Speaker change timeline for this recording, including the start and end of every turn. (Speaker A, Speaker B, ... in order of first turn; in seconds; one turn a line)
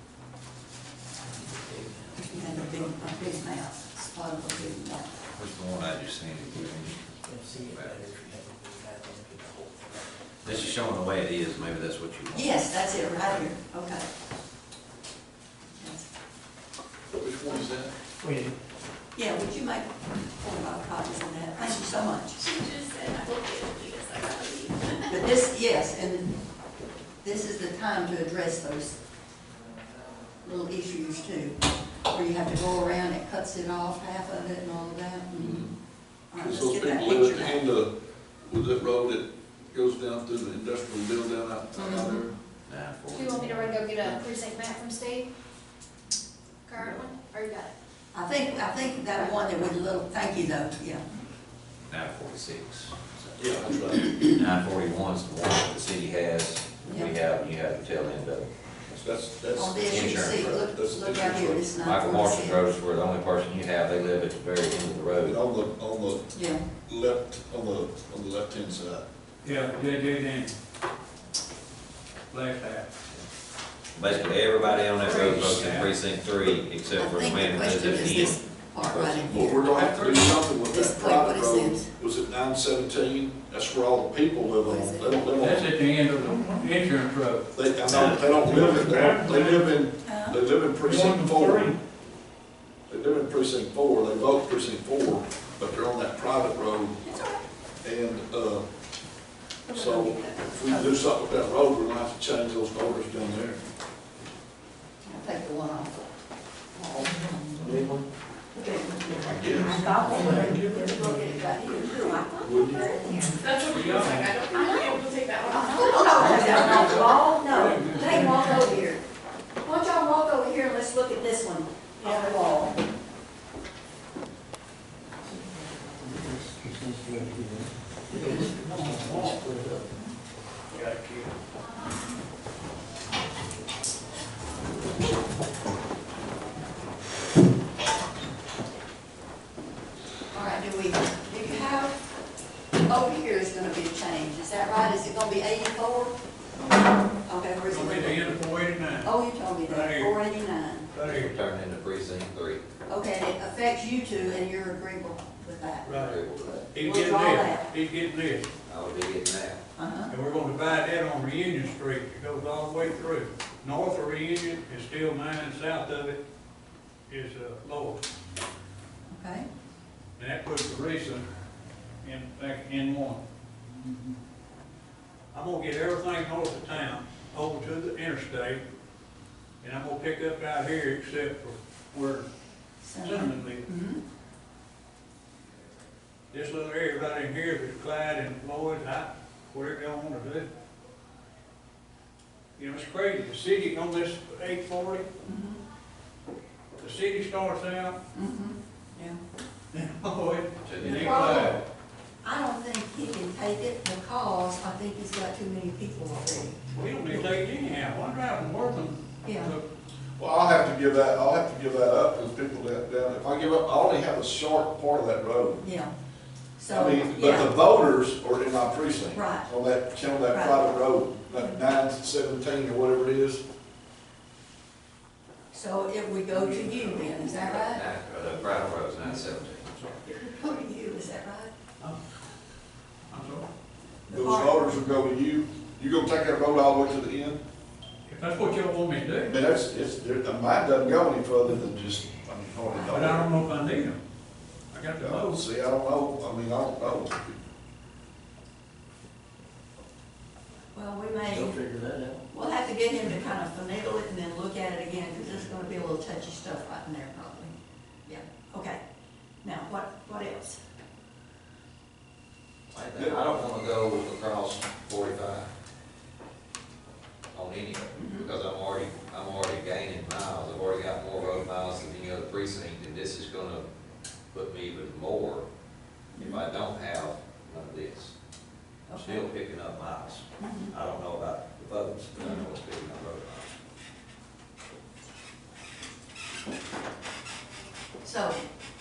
Speaker A: 1.3-3.1
Speaker B: 2.2-5.1
Speaker C: 5.3-8.0
Speaker A: 7.2-10.0
Speaker C: 10.4-12.6
Speaker B: 12.3-14.1
Speaker B: 15.8-16.1
Speaker D: 17.1-17.9
Speaker A: 18.2-18.6
Speaker B: 19.2-22.4
Speaker E: 22.4-25.1
Speaker B: 25.1-26.3
Speaker B: 27.2-29.0
Speaker B: 30.4-35.6
Speaker D: 35.4-35.7
Speaker B: 36.3-37.6
Speaker D: 36.4-37.9
Speaker D: 38.5-42.4
Speaker B: 41.8-42.2
Speaker C: 42.7-43.8
Speaker E: 43.1-45.3
Speaker E: 46.7-47.7
Speaker B: 48.1-51.0
Speaker C: 51.9-58.5
Speaker D: 53.4-54.1
Speaker B: 56.8-57.1
Speaker D: 58.9-61.7
Speaker B: 59.6-62.6
Speaker C: 59.9-60.6
Speaker C: 61.8-65.4
Speaker D: 65.3-69.0
Speaker B: 66.3-66.6
Speaker F: 69.4-70.6
Speaker F: 72.3-72.9
Speaker C: 74.0-78.4
Speaker F: 74.8-75.9
Speaker B: 77.0-81.9
Speaker D: 78.8-85.7
Speaker B: 84.6-85.3
Speaker F: 85.4-89.7
Speaker D: 87.5-91.7
Speaker B: 90.0-90.4
Speaker F: 90.8-91.8
Speaker D: 92.9-97.0
Speaker B: 97.1-97.4
Speaker D: 97.8-98.7
Speaker B: 99.7-101.0
Speaker D: 99.7-103.6
Speaker B: 105.0-106.0
Speaker B: 106.8-107.8
Speaker A: 107.6-108.1
Speaker B: 108.5-113.5
Speaker D: 109.2-110.6
Speaker A: 110.1-111.2
Speaker D: 112.4-113.0
Speaker G: 113.4-117.0
Speaker F: 113.5-114.4
Speaker E: 114.5-116.3
Speaker B: 114.5-119.0
Speaker F: 116.2-118.7
Speaker B: 119.6-122.8
Speaker A: 125.6-129.9
Speaker F: 128.1-129.4
Speaker F: 130.7-131.3
Speaker B: 140.3-141.9
Speaker B: 142.9-146.2
Speaker B: 147.3-148.4
Speaker F: 147.7-149.1
Speaker B: 149.0-150.9
Speaker F: 149.6-150.2
Speaker F: 150.9-151.3
Speaker C: 151.0-152.6
Speaker B: 152.9-157.7
Speaker F: 155.8-156.2
Speaker C: 155.9-156.6
Speaker F: 156.7-158.5
Speaker C: 158.7-159.6
Speaker B: 159.8-160.1
Speaker F: 160.1-166.2
Speaker F: 167.1-168.0
Speaker B: 169.1-169.5
Speaker F: 170.2-171.3
Speaker F: 172.0-173.2
Speaker F: 175.3-178.6
Speaker F: 179.6-182.3
Speaker B: 182.8-184.0
Speaker F: 183.0-183.7
Speaker F: 186.3-190.5
Speaker F: 192.6-195.1
Speaker B: 195.2-195.6
Speaker F: 196.8-198.0
Speaker B: 198.1-199.2
Speaker F: 199.7-201.6
Speaker C: 200.6-201.5
Speaker B: 200.8-201.6
Speaker B: 202.2-206.6
Speaker F: 206.7-209.6
Speaker B: 209.2-209.5
Speaker D: 210.2-215.6
Speaker B: 215.6-215.9
Speaker B: 216.6-217.5
Speaker D: 216.7-223.4
Speaker B: 219.1-219.5
Speaker B: 220.3-220.6
Speaker B: 225.5-227.8
Speaker C: 227.2-230.0
Speaker B: 230.1-231.5
Speaker F: 233.1-233.5
Speaker B: 234.1-234.8
Speaker D: 234.1-237.4
Speaker F: 238.1-239.3
Speaker D: 239.2-243.4
Speaker B: 242.7-243.2
Speaker F: 242.9-244.0
Speaker F: 244.7-245.5
Speaker D: 245.0-247.4
Speaker B: 250.7-251.6
Speaker A: 251.2-252.2
Speaker B: 252.3-257.5
Speaker B: 258.1-258.8
Speaker B: 259.4-260.6
Speaker C: 262.7-265.5
Speaker C: 267.3-273.6
Speaker B: 268.0-268.3
Speaker C: 274.3-275.5
Speaker B: 276.1-276.4
Speaker C: 276.2-278.1
Speaker B: 278.9-279.2
Speaker C: 279.0-283.6
Speaker B: 280.4-280.7
Speaker B: 282.2-282.4
Speaker B: 288.0-288.4